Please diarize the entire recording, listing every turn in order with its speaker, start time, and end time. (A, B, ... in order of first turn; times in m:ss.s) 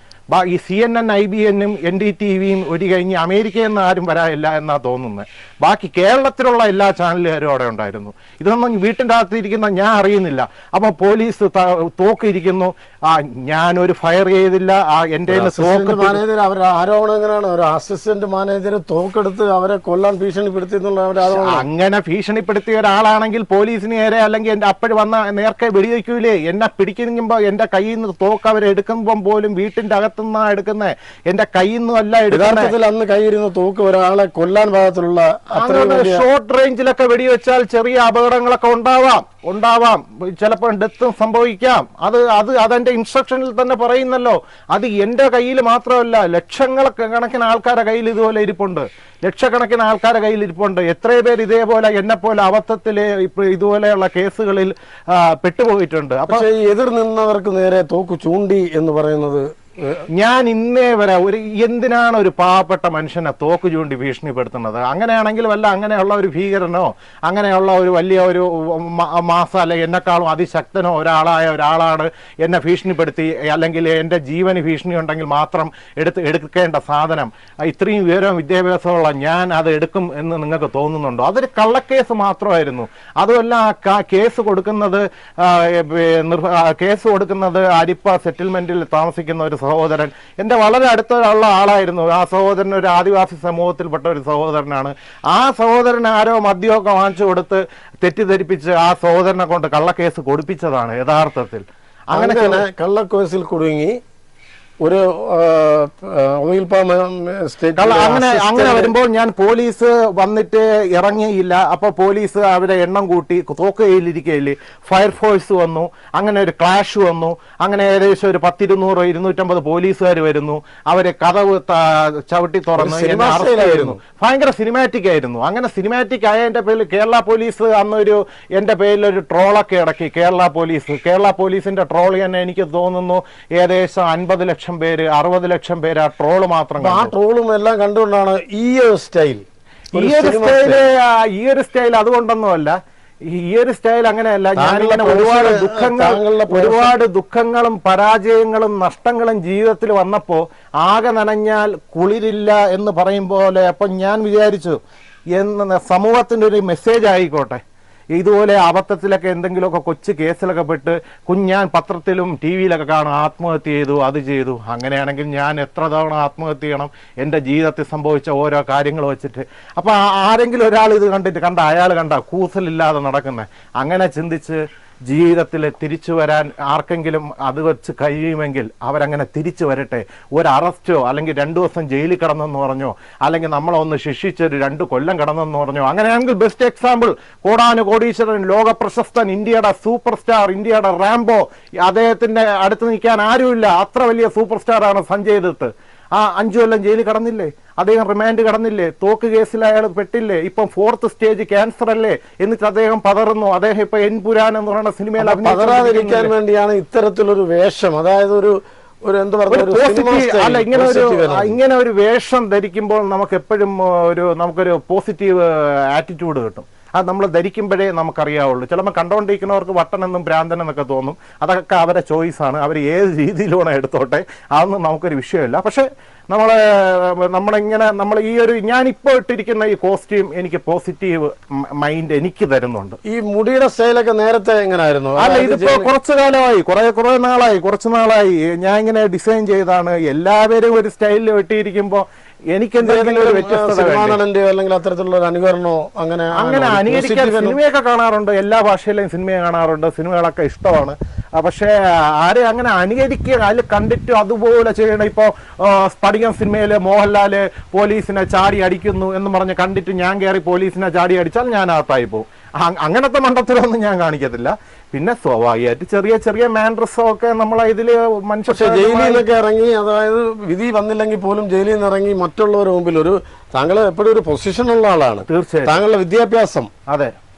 0:00.3-0:16.2 A
0:15.3-0:21.6 B
0:21.3-0:32.7 A
0:32.3-0:36.2 B
0:35.6-0:56.5 A
0:56.3-1:00.0 B
1:00.1-1:42.6 A
1:42.1-1:44.0 B
1:44.8-1:48.9 B
1:47.8-2:17.1 A
2:02.8-2:04.0 B
2:16.8-2:19.4 B
2:19.9-2:34.8 A
2:19.9-2:20.8 B
2:24.6-2:26.9 B
2:35.4-2:37.6 A
2:38.2-3:26.3 A
3:25.2-3:31.6 B
3:29.5-3:53.0 A
3:53.0-3:55.9 B
3:55.2-4:04.2 A
4:02.8-4:07.6 B
4:06.4-4:29.2 A
4:28.5-4:36.7 B
4:35.3-4:35.8 A
4:36.9-4:37.1 A